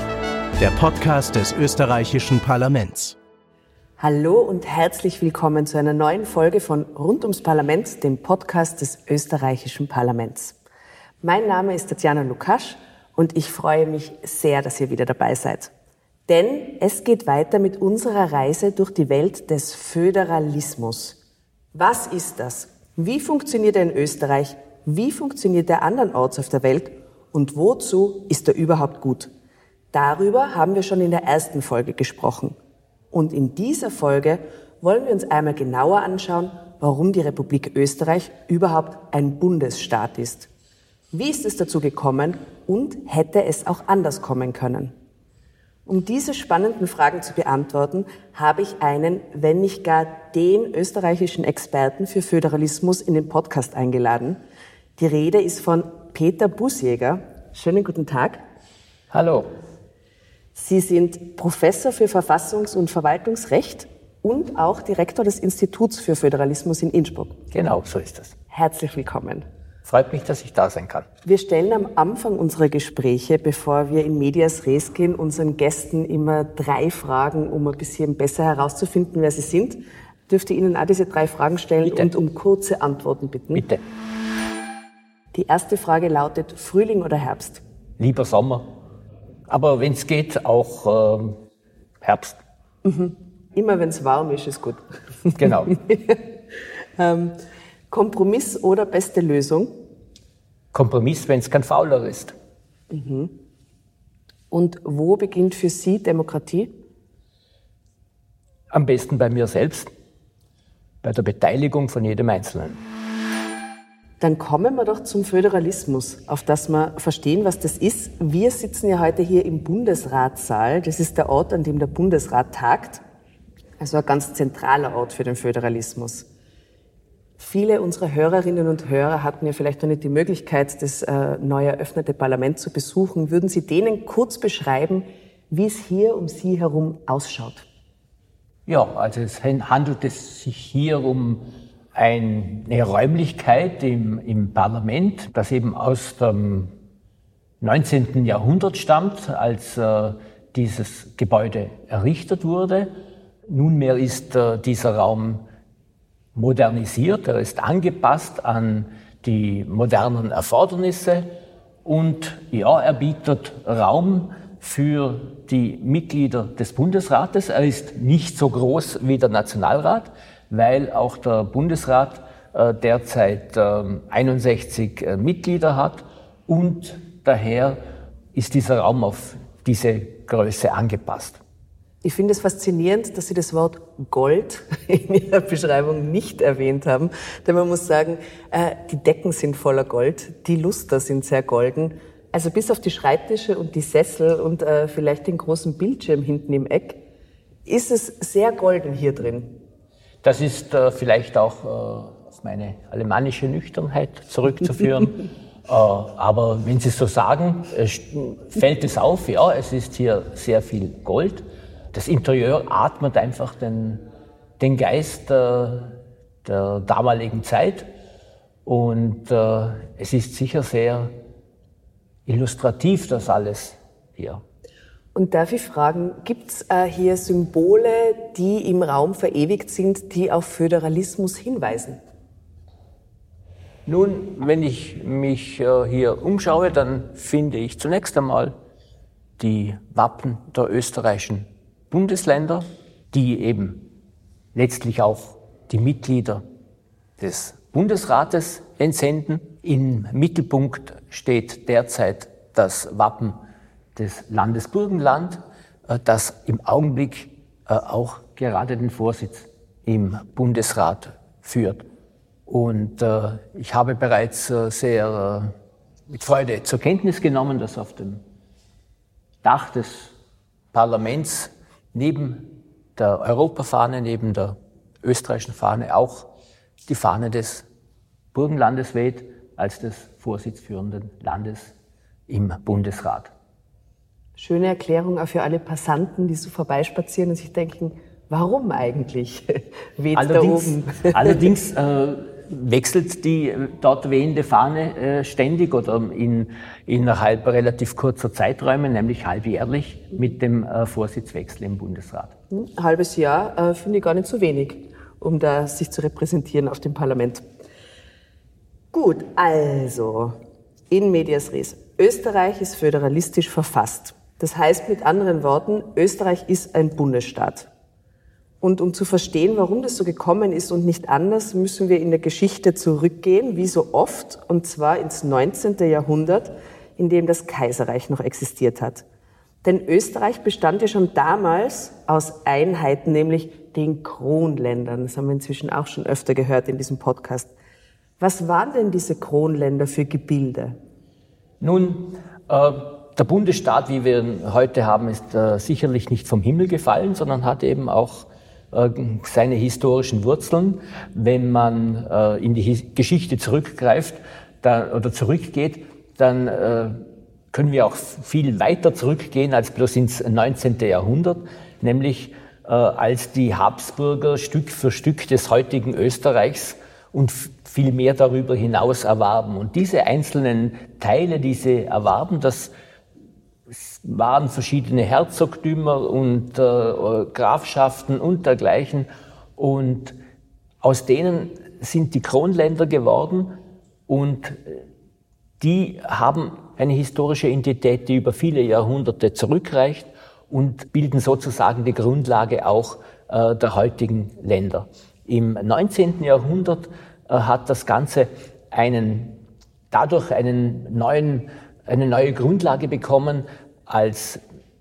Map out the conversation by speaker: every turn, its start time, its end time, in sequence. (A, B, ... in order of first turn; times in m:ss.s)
0:00.6-0:03.2 A
0:04.0-0:10.6 B
0:11.2-0:15.7 B
0:16.3-0:21.2 B
0:21.7-0:29.3 B
0:29.9-0:32.6 B
0:33.1-0:40.5 B
0:41.1-0:44.9 B
0:45.8-0:54.4 B
0:55.0-0:58.4 B
0:59.1-0:59.5 C
1:00.5-1:07.4 B
1:07.5-1:08.4 C
1:08.5-1:09.4 B
1:09.8-1:11.1 C
1:11.2-1:23.6 B
1:21.8-1:22.1 C
1:23.5-1:23.8 C
1:25.3-1:27.6 B
1:28.0-1:28.7 C
1:29.5-1:31.4 C
1:32.0-1:32.4 C
1:32.8-1:36.2 B
1:35.4-1:35.7 C
1:37.0-1:37.4 B
1:37.9-1:39.7 B
1:40.7-1:42.3 C
1:42.9-1:43.3 B
1:44.5-1:46.7 B
1:48.7-1:49.9 C
1:51.0-1:52.8 C
1:54.2-2:03.0 B
2:03.8-2:06.3 B
2:07.4-2:17.6 B
2:18.6-2:26.7 C
2:27.6-2:32.9 C
2:33.5-2:35.4 C
2:36.3-2:41.3 C
2:41.8-2:57.8 C
2:58.3-3:01.4 C
3:02.0-3:17.0 B
3:17.6-3:19.6 B
3:20.2-3:34.0 C
3:34.6-3:37.9 C
3:38.6-3:41.1 C
3:42.2-3:44.4 C
3:45.1-3:52.0 B
3:53.8-3:58.6 C
3:59.4-4:03.8 C
4:04.5-4:06.4 C
4:07.2-4:13.4 C
4:14.0-4:21.8 C
4:22.5-4:25.5 C
4:26.1-4:28.2 C
4:29.4-4:30.1 C
4:30.7-4:36.3 C
4:36.9-4:37.6 C
4:38.3-4:41.7 C
4:42.3-4:43.3 C
4:44.4-4:51.5 B
4:50.1-5:02.3 C
5:02.5-5:07.4 B
5:08.9-5:10.4 B
5:10.9-5:17.7 B
5:18.6-5:29.0 B
5:29.6-5:37.5 B
5:38.2-5:40.8 B
5:41.6-5:57.0 C
5:57.5-6:12.7 C
6:13.7-6:20.2 C
6:20.8-6:24.8 C
6:25.6-6:39.4 C
6:39.9-6:44.4 C